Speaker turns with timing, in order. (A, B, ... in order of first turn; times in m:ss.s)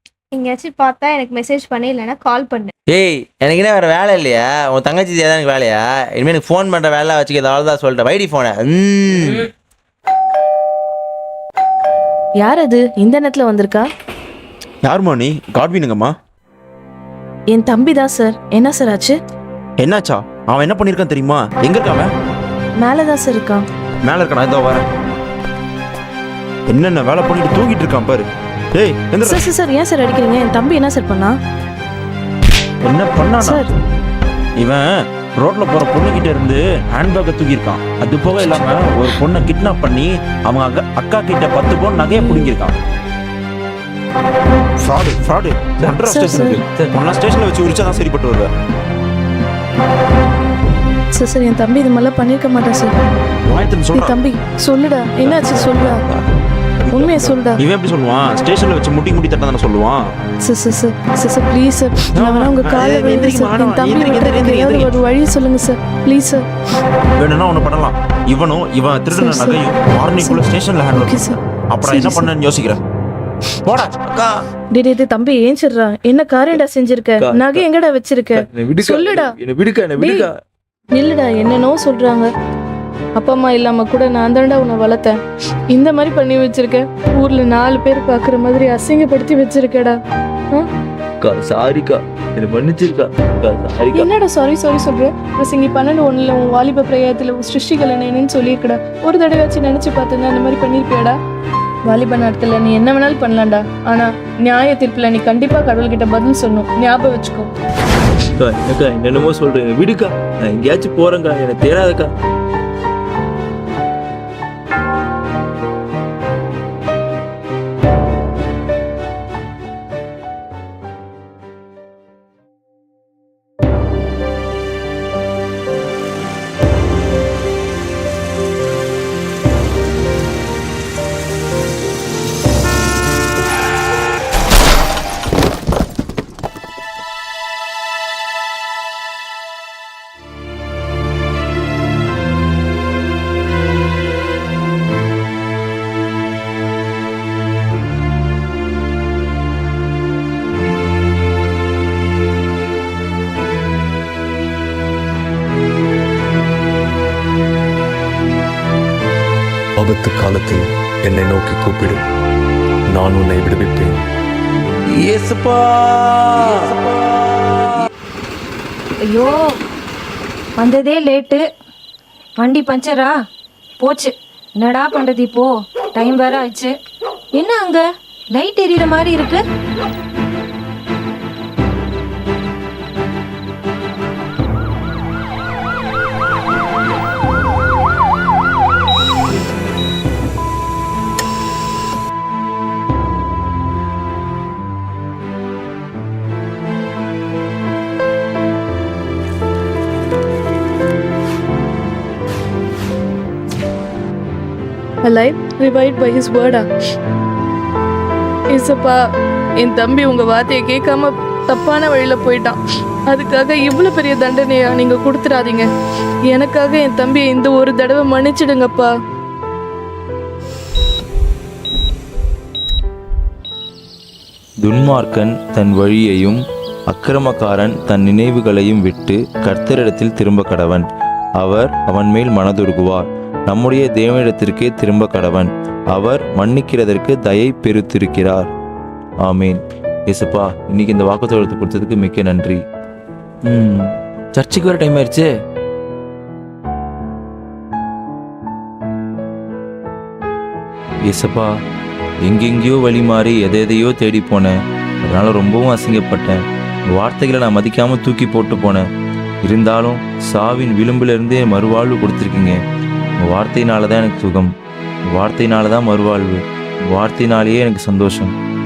0:00.3-0:02.7 A
0:02.9-0:09.5 B
0:12.4-0:13.9 C
0:14.8-0:16.1 D
0:17.5-0:19.2 C
0:19.8-0:22.1 D
0:22.8-0:23.6 C
0:24.0-0:24.8 D
0:26.7-0:29.4 D
0:29.2-0:31.4 C
0:32.8-0:33.6 D
0:33.4-0:33.7 C
0:34.6-0:42.7 D
0:38.4-0:38.8 B
0:42.2-0:42.5 C
0:44.8-0:48.5 D
0:45.8-0:46.9 B
0:46.0-0:46.6 C
0:51.1-0:52.9 C
0:53.4-0:54.1 D
0:53.9-0:56.0 C
0:55.3-0:56.2 D
0:56.8-1:00.1 D
0:56.9-0:57.6 C
1:00.4-1:06.4 C
1:02.1-1:04.9 D
1:07.2-1:12.8 D
1:09.1-1:09.6 C
1:10.9-1:12.3 C
1:13.6-1:14.0 D
1:14.7-1:19.3 C
1:17.2-1:17.6 B
1:18.4-1:20.3 B
1:20.0-1:20.2 C
1:20.9-1:22.3 C
1:23.2-1:25.2 C
1:25.7-1:30.0 C
1:31.2-1:34.1 B
1:33.9-1:41.1 C
1:41.8-1:47.5 C
1:48.4-1:52.1 B
2:39.8-2:42.0 E
2:42.9-2:44.0 E
2:45.0-2:47.6 B
2:49.0-2:49.6 F
2:50.6-2:51.4 F
2:52.4-2:53.2 F
2:53.8-2:56.7 F
2:57.3-2:59.4 F
3:25.0-3:26.6 C
3:28.5-3:29.0 C
3:29.6-3:32.6 C
3:33.1-3:35.7 C
3:36.3-3:38.9 C
3:44.6-3:50.8 B
3:51.4-3:58.5 B
3:59.2-4:02.6 B
4:03.4-4:05.3 B
4:11.0-4:11.5 B
4:12.2-4:16.4 B
4:16.9-4:18.8 B
4:19.4-4:22.6 B
4:23.2-4:24.5 B
4:25.1-4:28.3 B